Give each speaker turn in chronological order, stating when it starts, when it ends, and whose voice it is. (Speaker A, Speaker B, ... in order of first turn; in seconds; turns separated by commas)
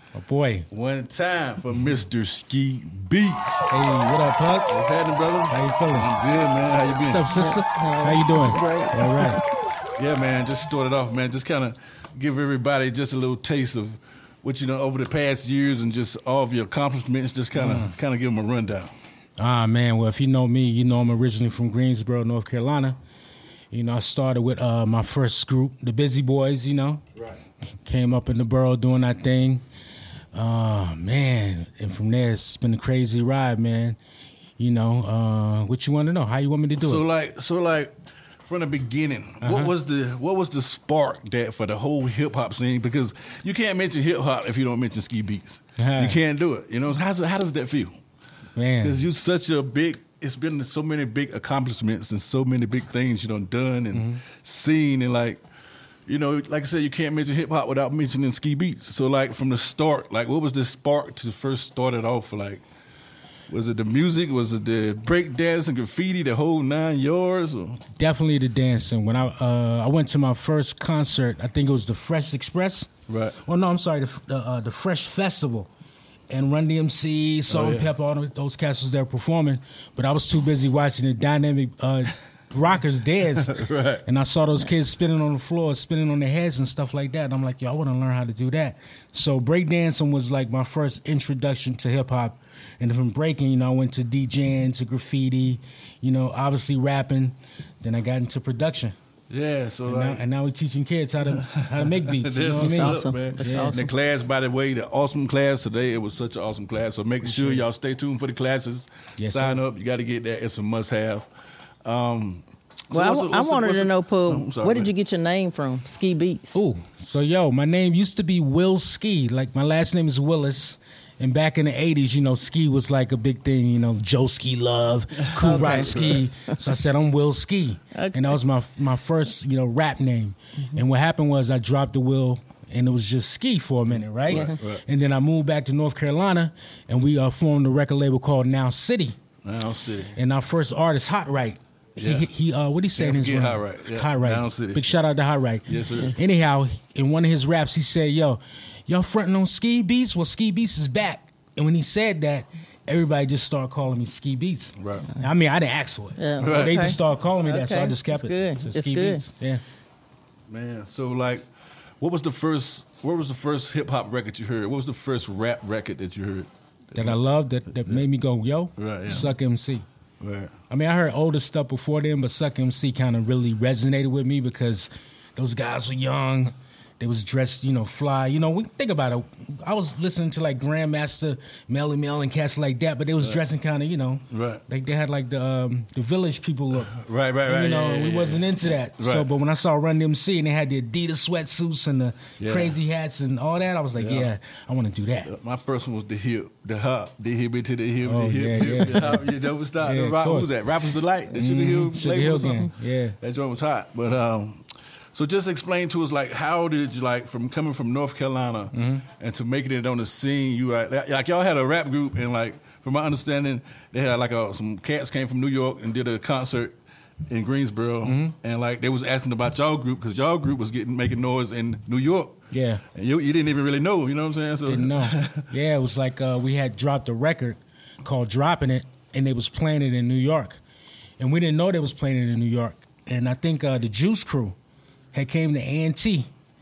Speaker A: 0.1-0.7, Speaker B: 0.7-3.7, Speaker A: 3.7-4.7, Speaker B: 4.7-7.3, Speaker A: 5.5-6.1, Speaker A: 7.0-9.4, Speaker C: 7.3-9.3, Speaker B: 9.9-18.9, Speaker A: 17.5-18.0, Speaker A: 19.4-23.0, Speaker A: 23.7-27.0, Speaker A: 27.8-29.6, Speaker A: 30.3-34.0, Speaker A: 34.6-37.0, Speaker B: 36.7-37.9, Speaker B: 38.4-47.9, Speaker A: 39.4-39.7, Speaker A: 45.8-46.2, Speaker A: 48.5-49.0, Speaker B: 48.8-55.4, Speaker A: 53.9-54.2, Speaker B: 56.1-62.6, Speaker B: 63.5-67.8, Speaker A: 68.0-72.9, Speaker B: 73.1-73.4, Speaker A: 73.4-75.7, Speaker A: 76.3-98.9, Speaker B: 77.5-77.9, Speaker B: 83.3-84.0, Speaker B: 99.3-100.2, Speaker A: 99.8-103.7, Speaker B: 101.2-111.3, Speaker C: 102.5-103.9, Speaker A: 107.2-107.6, Speaker A: 109.2-109.6, Speaker B: 111.8-114.9, Speaker C: 112.9-116.6, Speaker A: 116.5-139.2, Speaker B: 125.2-126.2, Speaker C: 125.4-126.5, Speaker C: 127.9-128.4, Speaker B: 134.2-134.8, Speaker B: 139.4-140.2, Speaker A: 140.1-159.6, Speaker B: 142.0-142.3, Speaker B: 142.9-144.9, Speaker B: 145.7-146.2, Speaker B: 154.8-155.1, Speaker C: 156.2-159.2, Speaker B: 156.4-156.8, Speaker B: 160.5-161.4, Speaker B: 162.0-167.1, Speaker A: 166.9-169.8, Speaker B: 168.8-169.3, Speaker B: 170.2-170.5, Speaker A: 170.7-195.3, Speaker B: 184.3-184.6, Speaker B: 186.9-189.3, Speaker B: 192.4-192.8, Speaker B: 194.0-194.3, Speaker B: 195.2-204.6, Speaker A: 198.0-199.3, Speaker A: 199.8-200.5, Speaker A: 201.3-203.2, Speaker B: 205.1-216.7, Speaker A: 208.7-209.1, Speaker B: 217.3-222.4, Speaker A: 218.0-218.3, Speaker A: 222.5-222.8, Speaker B: 222.9-225.4, Speaker A: 224.7-230.6, Speaker A: 231.2-234.5, Speaker A: 235.1-236.2